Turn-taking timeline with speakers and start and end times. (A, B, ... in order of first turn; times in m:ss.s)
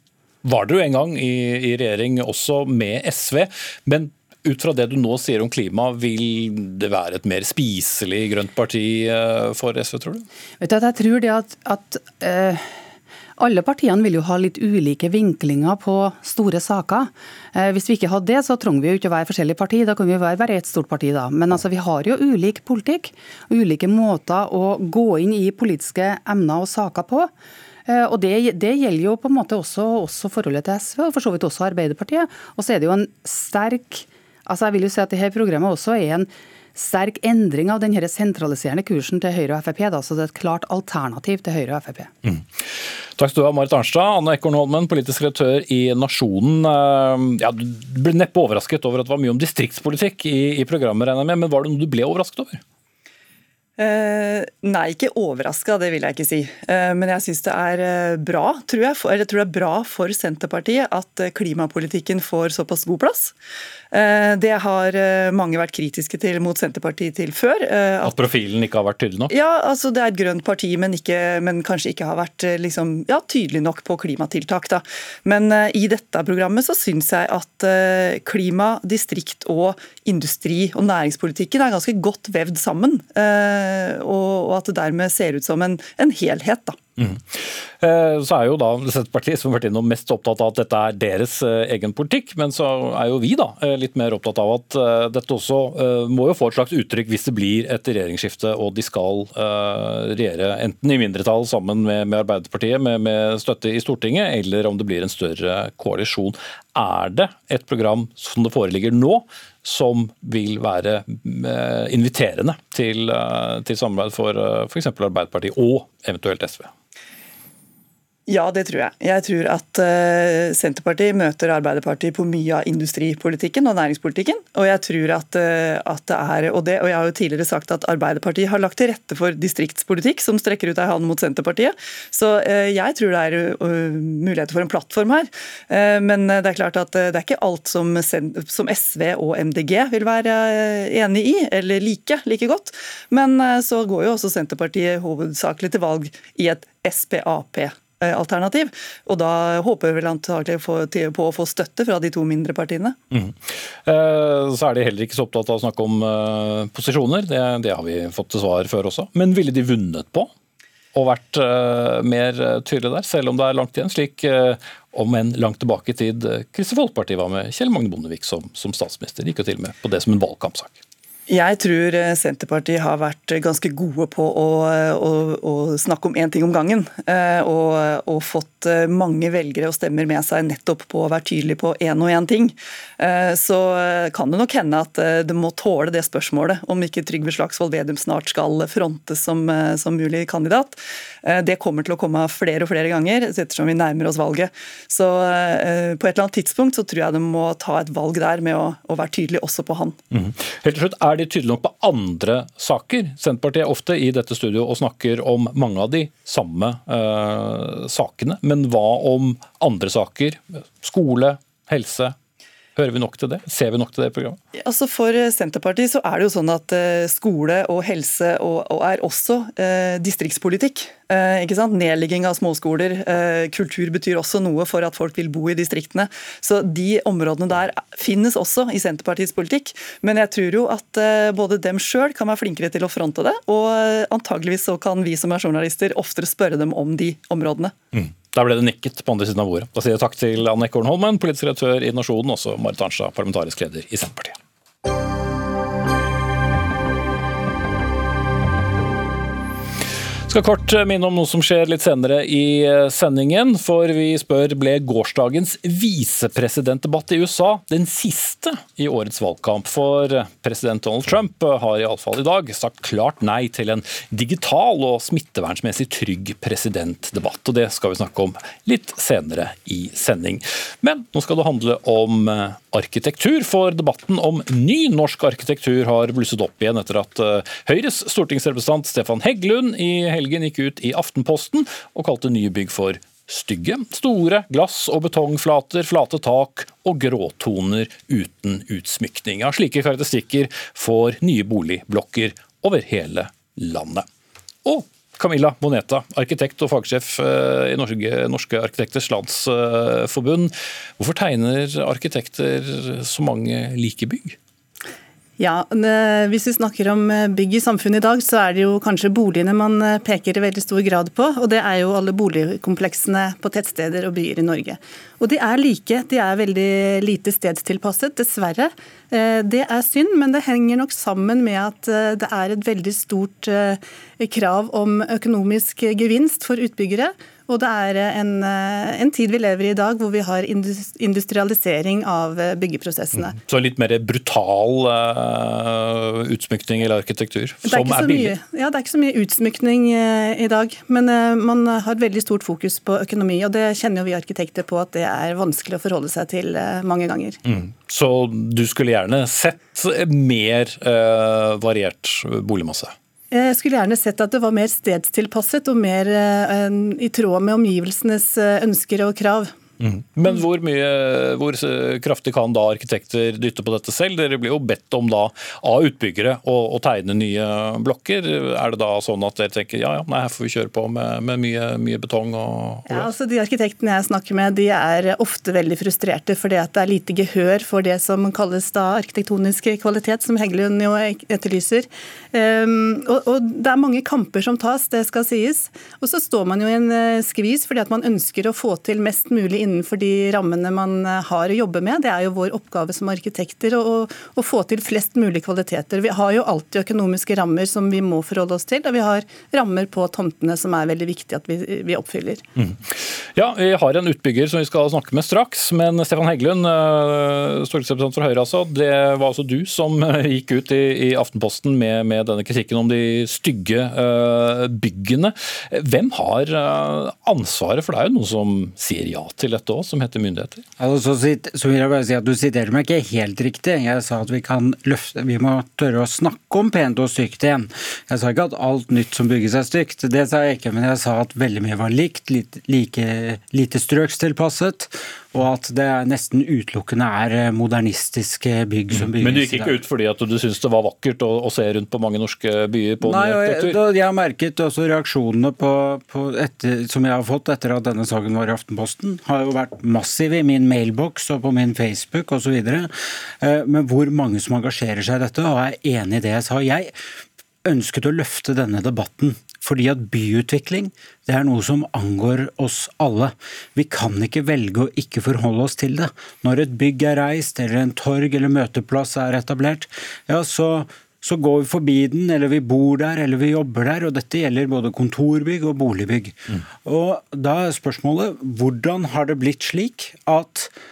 0:00.4-0:10.3 A
0:10.6-0:12.8 B
0:13.4-0:27.3 B
0:27.9-0:42.1 B
0:42.2-0:52.6 A
0:53.8-1:03.4 C
1:03.9-1:08.2 C
1:08.0-1:09.3 A
1:09.3-1:26.8 C
1:27.0-1:56.7 A
1:58.3-2:33.0 C
2:33.1-2:40.3 A
2:40.9-2:50.8 A
2:51.3-3:20.0 C
3:20.1-3:32.2 A
3:32.8-3:34.4 A
3:34.6-3:57.7 C
3:57.9-4:04.4 A
4:10.3-4:54.1 A
4:54.6-5:04.4 A
5:05.4-5:33.4 D
5:33.2-5:38.4 A
5:37.6-5:47.4 D
5:47.4-5:52.9 A
5:53.3-5:59.5 D
5:59.8-6:13.1 A
6:12.9-6:42.4 D
6:42.6-7:00.6 A
7:00.8-7:19.8 E
7:18.9-7:23.8 A
7:23.0-7:37.0 E
7:37.6-8:00.7 E